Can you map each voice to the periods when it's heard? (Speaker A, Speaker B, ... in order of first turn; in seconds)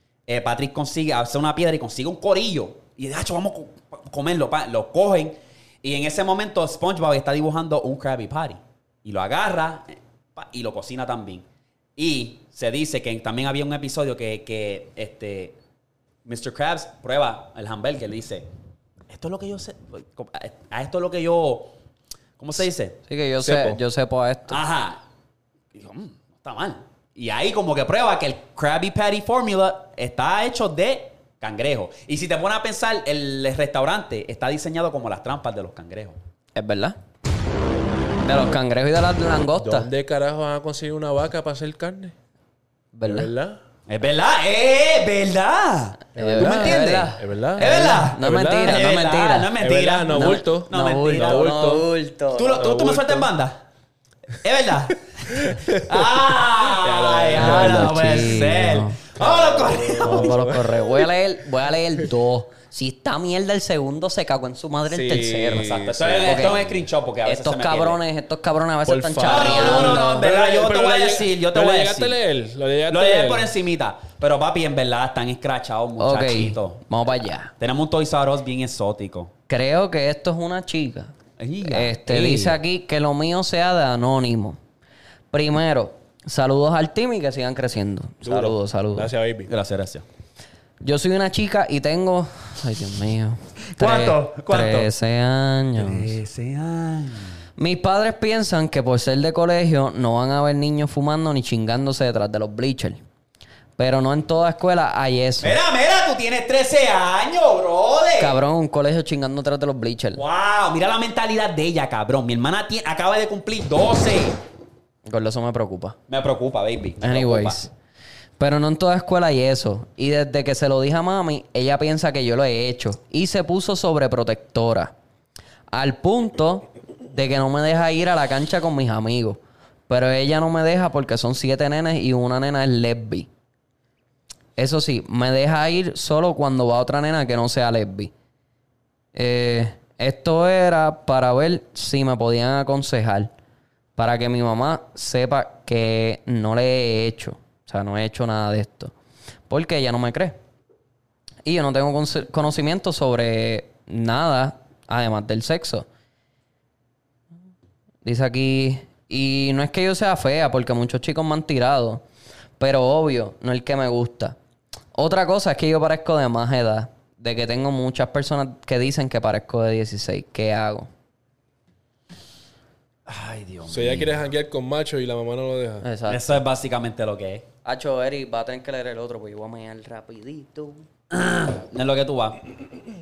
Speaker A: 0.3-11.4, 12.0-15.6, 16.2-18.5, 19.1-21.7, 22.4-23.0, 24.5-25.0, 25.7-36.2, 43.9-51.5, 52.3-53.6, 54.4-60.6, 65.6-68.0, 69.2-72.2, 72.9-76.8, 77.6-79.3, 81.4-82.6, 89.5-90.1, 93.7-94.9, 95.8-97.3, 105.4-108.4, 110.1-114.4, 116.1-117.7, 173.1-174.2, 176.1-177.5, 181.1-182.5
Speaker B: 23.1-24.6, 36.5-37.0, 38.2-39.9, 42.9-43.3, 46.2-49.5, 50.1-52.7, 57.4-59.0, 60.0-66.6, 67.2-70.3, 76.0-77.5, 79.5-81.1, 81.7-84.6, 85.3-89.1, 90.8-96.1, 97.6-103.0, 103.8-105.6, 108.2-110.2, 115.1-116.0, 117.0-117.7, 118.4-124.9, 125.7-133.3, 134.6-138.1, 139.1-143.3, 144.0-148.9, 149.5-150.4, 151.4-155.9, 158.0-162.0, 162.6-164.4, 164.9-170.9, 175.8-176.4, 177.7-180.8
Speaker C: 23.5-23.8, 39.6-42.1, 43.1-43.6, 46.2-48.9, 49.6-51.9, 52.6-53.3, 55.4-56.0, 56.7-58.2, 59.2-60.9, 64.9-66.7, 68.9-73.5, 88.2-89.5, 173.7-175.8